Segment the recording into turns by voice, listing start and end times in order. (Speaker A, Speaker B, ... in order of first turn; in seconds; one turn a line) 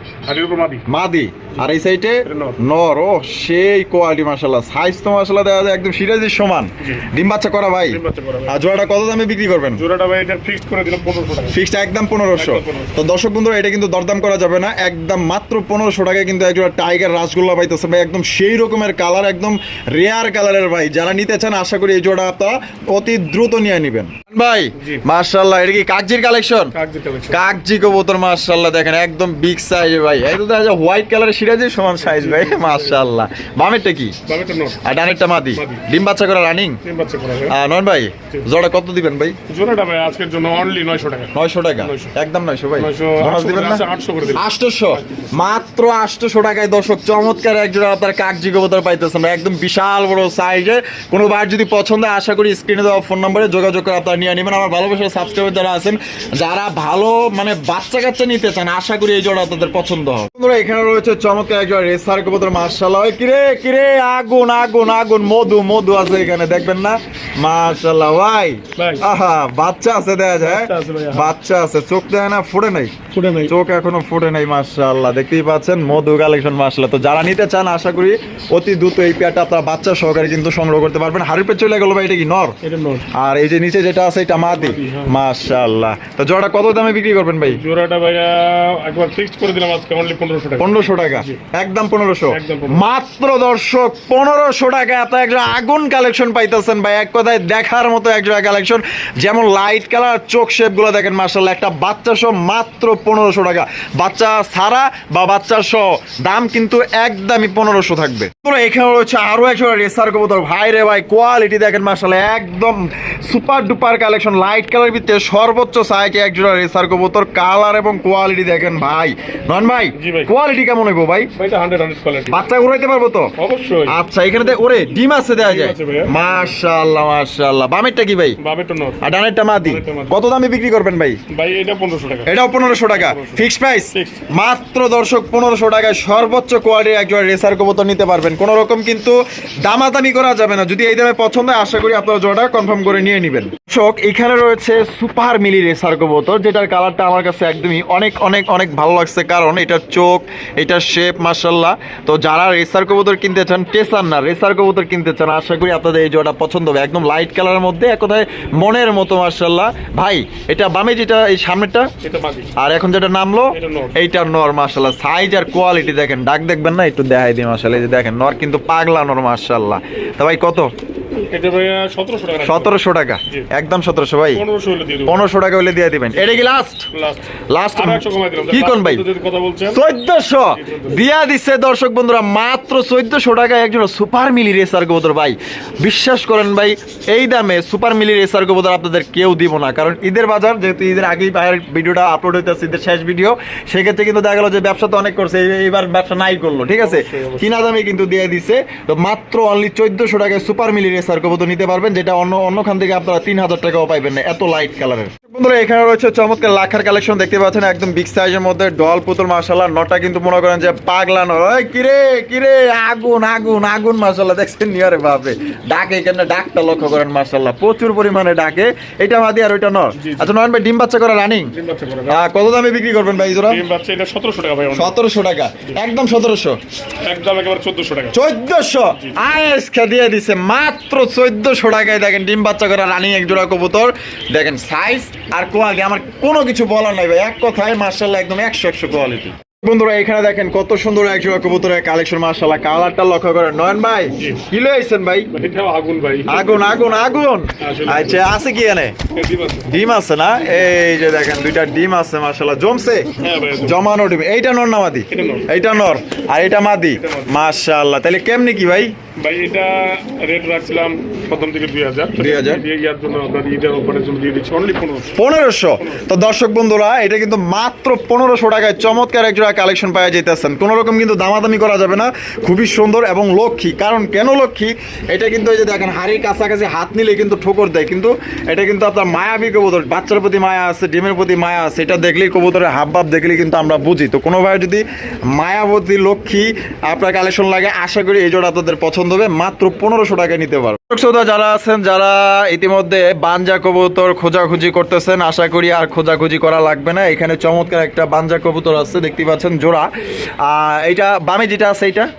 Speaker A: 0.3-0.9
Speaker B: 0.9-9.8
Speaker A: 2.2-2.6
Speaker A: 6.8-7.1
Speaker A: 7.9-8.6
Speaker A: 9.8-11.6
Speaker B: 11.5-26.7
Speaker A: 12.4-13.0
Speaker A: 24.8-25.0
Speaker A: 26.7-27.4
Speaker B: 27.3-34.1
Speaker A: 32.0-33.0
Speaker A: 34.3-34.8
Speaker B: 34.8-36.8
Speaker A: 35.5-35.9
Speaker A: 36.8-37.6
Speaker B: 37.5-39.4
Speaker A: 39.5-42.1
Speaker B: 41.3-72.9
Speaker A: 42.8-45.3
Speaker A: 68.8-69.0
Speaker A: 70.4-71.3
Speaker A: 73.1-73.5
Speaker B: 73.5-82.6
Speaker A: 82.6-83.1
Speaker B: 83.1-87.6
Speaker A: 84.3-85.2
Speaker A: 87.5-91.4
Speaker B: 90.6-121.3
Speaker A: 92.3-92.9
Speaker A: 120.0-120.3
Speaker A: 121.3-122.4
Speaker B: 122.3-123.3
Speaker A: 123.4-124.0
Speaker B: 123.9-128.4
Speaker A: 125.4-126.4
Speaker A: 128.4-129.0
Speaker B: 129.0-131.2
Speaker A: 129.6-130.2
Speaker A: 131.3-132.3
Speaker B: 132.3-161.9
Speaker A: 132.9-134.2
Speaker A: 162.0-162.5
Speaker B: 162.6-170.7
Speaker A: 163.5-164.0
Speaker A: 171.3-173.5
Speaker B: 172.4-174.4
Speaker A: 174.3-175.2
Speaker B: 175.1-176.9
Speaker A: 176.1-179.8
Speaker B: 177.5-179.1
Speaker B: 179.7-221.5
Speaker A: 180.5-181.0
Speaker A: 196.8-197.6
Speaker A: 220.0-220.3
Speaker A: 221.5-222.2
Speaker B: 222.1-223.6
Speaker A: 223.5-225.0
Speaker B: 224.7-226.6
Speaker A: 227.1-228.2
Speaker B: 228.1-245.3
Speaker A: 244.2-244.4
Speaker A: 245.3-246.6
Speaker B: 246.3-249.0
Speaker A: 247.6-248.2
Speaker A: 249.1-249.7
Speaker B: 249.7-258.9
Speaker A: 253.2-253.9
Speaker A: 255.1-255.5
Speaker A: 256.9-257.4
Speaker A: 259.2-265.2
Speaker B: 262.1-262.6
Speaker B: 265.2-299.9
Speaker B: 300.4-302.1